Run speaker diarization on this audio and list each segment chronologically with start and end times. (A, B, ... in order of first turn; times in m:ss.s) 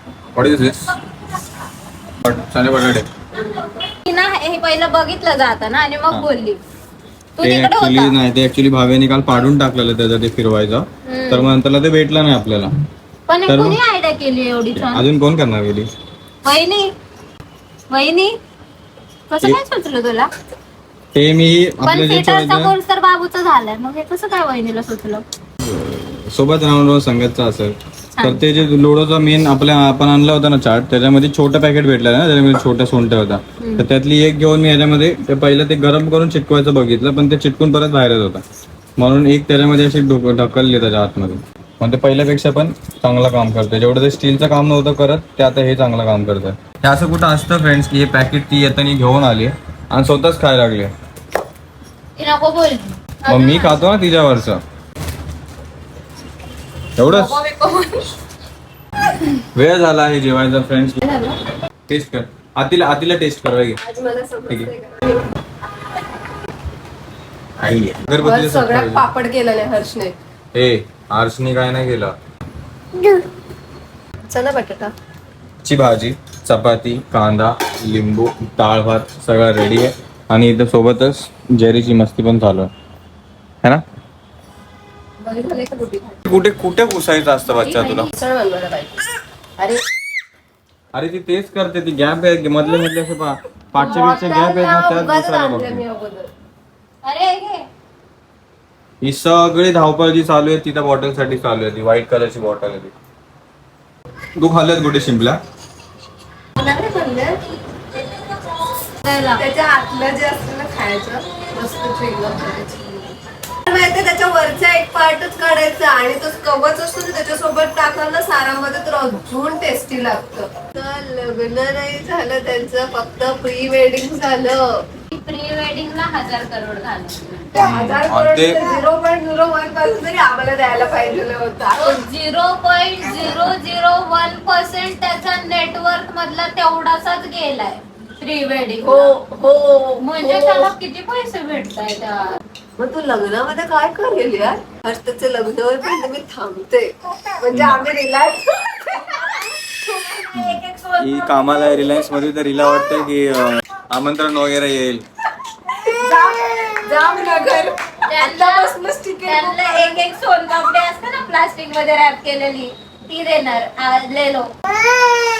0:00.3-0:00.9 A
0:02.2-0:03.1 A
0:03.7-0:06.6 B
0:07.4-0:08.1 B
0:07.4-0:12.7 A
0:11.0-0:11.6 B
0:13.3-0:15.0 B
0:13.5-0:13.8 A
0:14.8-0:15.9 A
0:16.4-0:16.9 B
0:17.9-0:18.4 B
0:19.3-0:20.3 B
0:21.1-0:22.7 A
0:21.8-0:25.2 B
0:25.6-0:38.4 A
0:39.0-0:50.9 A
0:52.2-0:53.8 B
0:53.3-0:54.6 A
0:57.0-0:57.4 A
0:57.1-0:58.1 B
0:59.5-1:01.0 A
1:01.0-1:01.4 B
1:01.9-1:03.8 A
1:03.8-1:05.3 C
1:07.6-1:09.1 A
1:08.1-1:10.1 C
1:10.5-1:12.1 A
1:13.0-1:13.2 C
1:14.3-1:14.9 C
1:15.6-1:22.7 A
1:25.2-1:26.2 C
1:26.2-1:28.1 A
1:27.6-1:28.1 B
1:28.1-1:29.0 C
1:29.6-1:29.8 C
1:30.9-1:35.8 A
1:33.8-1:36.3 C
1:33.8-1:34.0 B
1:37.0-1:37.7 B
1:39.0-1:42.9 A
1:44.4-1:45.4 A
1:46.6-1:47.4 C
1:49.0-1:49.4 B
1:49.3-2:04.8 C
2:05.1-2:07.5 B
2:07.5-2:12.0 C
2:07.6-2:08.6 A
2:11.8-2:19.2 B
2:18.8-2:20.7 C
2:20.0-2:22.4 B
2:22.8-2:30.3 C
2:27.5-2:27.9 A
2:30.3-2:35.0 A
2:30.4-2:31.4 B
2:35.8-2:40.0 C
2:38.1-2:44.5 B